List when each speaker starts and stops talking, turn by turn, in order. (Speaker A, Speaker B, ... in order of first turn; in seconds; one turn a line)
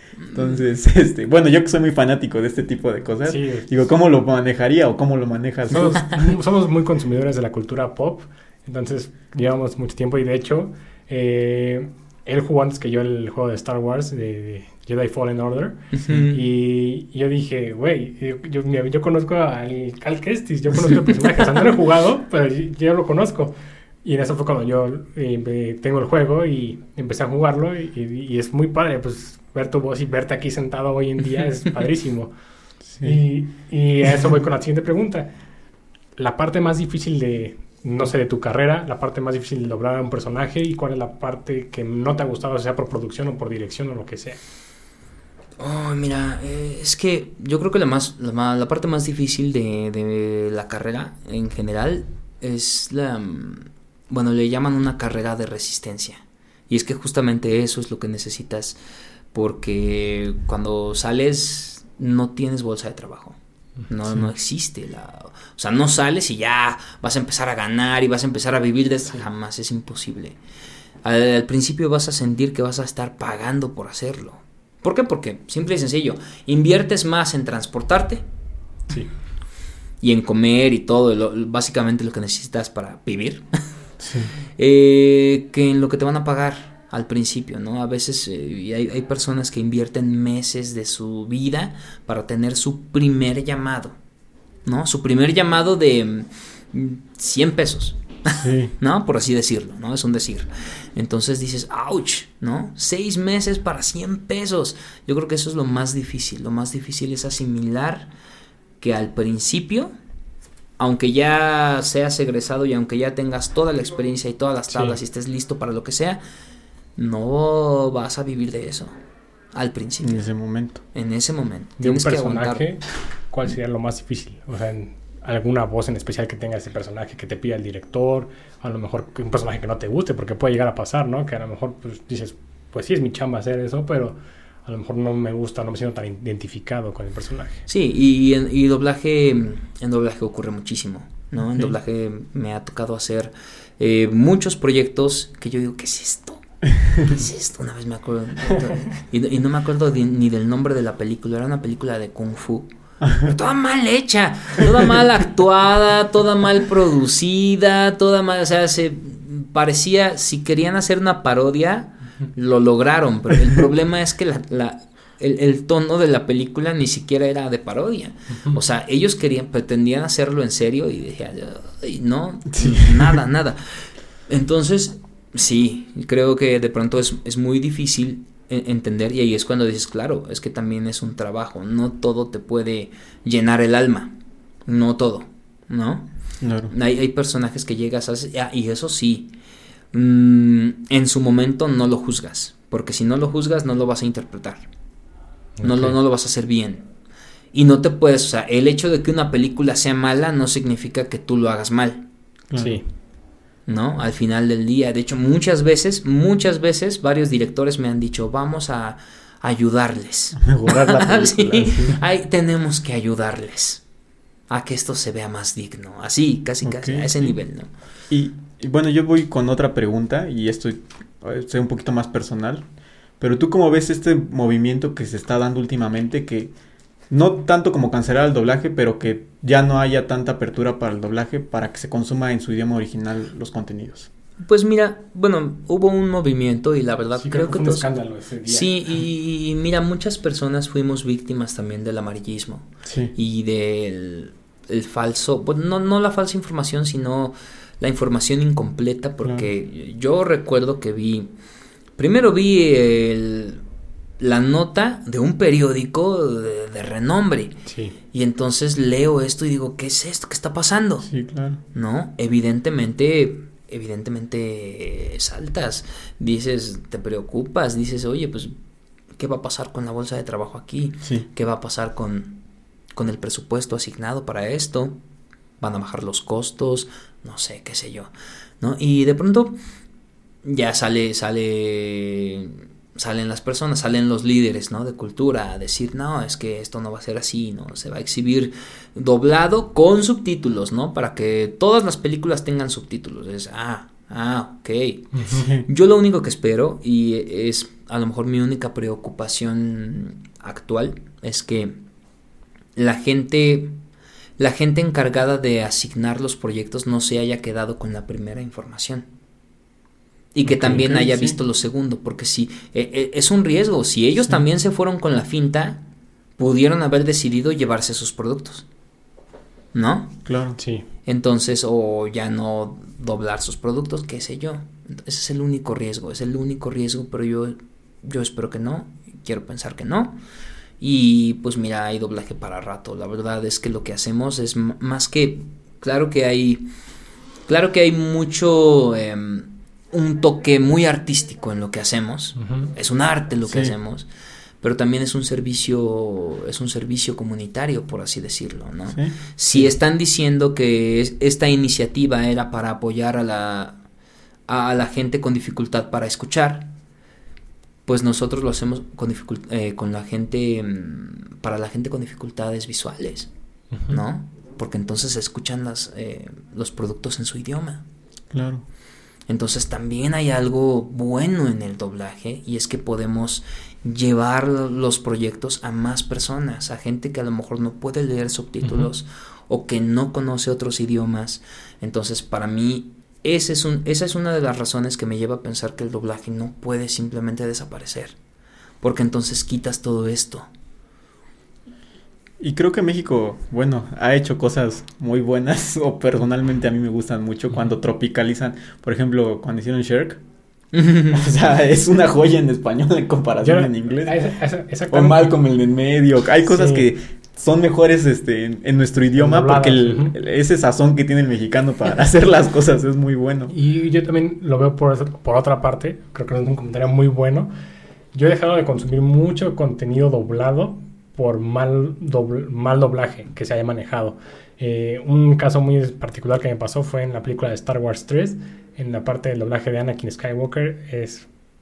Speaker A: 0.3-6.3
Speaker B: 3.2-3.7
Speaker B: 5.7-32.3
Speaker C: 15.9-16.4
Speaker B: 33.0-35.3
Speaker B: 36.2-44.4
Speaker C: 45.6-58.8
Speaker C: 59.3-70.4
Speaker C: 71.0-78.2
Speaker C: 80.0-83.4
Speaker A: 84.0-84.3
Speaker C: 84.6-94.0
Speaker C: 94.6-108.1
Speaker A: 98.4-98.7
Speaker C: 108.8-109.9
Speaker C: 110.8-116.2
Speaker C: 117.0-118.9
Speaker C: 119.5-120.2
Speaker A: 120.0-120.8
Speaker C: 120.9-122.6
Speaker B: 121.8-137.6
Speaker C: 137.7-184.1
Speaker A: 172.5-173.1
Speaker C: 184.7-186.1
Speaker A: 186.4-186.7
Speaker C: 186.7-189.3
Speaker C: 189.9-194.7
Speaker B: 195.6-195.9
Speaker C: 195.6-196.9
Speaker C: 197.5-202.1
Speaker A: 202.5-202.8
Speaker B: 202.6-202.9
Speaker C: 203.7-213.8
Speaker A: 210.4-212.0
Speaker C: 214.5-217.7
Speaker A: 216.6-217.4
Speaker A: 218.1-222.7
Speaker A: 223.2-226.5
Speaker A: 227.1-234.1
Speaker C: 234.4-237.9
Speaker B: 237.2-238.7
Speaker C: 238.4-251.3
Speaker A: 242.8-243.1
Speaker C: 252.0-253.6
Speaker C: 254.2-257.6
Speaker B: 257.7-257.9
Speaker C: 258.1-261.1
Speaker A: 261.1-261.6
Speaker C: 261.7-268.5
Speaker C: 269.2-272.4
Speaker C: 272.9-275.0
Speaker C: 275.6-279.6
Speaker C: 280.4-301.8
Speaker B: 295.1-295.4
Speaker A: 295.3-295.7
Speaker C: 302.8-303.8
Speaker C: 304.4-309.1
Speaker C: 310.3-315.8
Speaker A: 310.4-311.4
Speaker C: 316.4-318.7
Speaker C: 319.7-320.2
Speaker A: 320.3-320.6
Speaker B: 320.6-320.9
Speaker C: 321.1-330.2
Speaker C: 330.8-336.7
Speaker C: 337.5-344.1
Speaker B: 342.4-342.7
Speaker A: 343.4-343.7
Speaker C: 344.6-353.8
Speaker A: 348.9-349.6
Speaker C: 354.5-356.7
Speaker C: 357.9-363.3
Speaker C: 363.9-367.8
Speaker A: 368.3-368.6
Speaker C: 369.3-388.2
Speaker C: 388.8-390.5
Speaker A: 392.4-400.2
Speaker C: 400.7-401.3
Speaker A: 401.1-404.2
Speaker B: 403.4-405.3
Speaker A: 404.9-413.5
Speaker B: 406.5-406.9
Speaker B: 409.2-410.1
Speaker B: 413.5-417.5
Speaker B: 418.1-431.3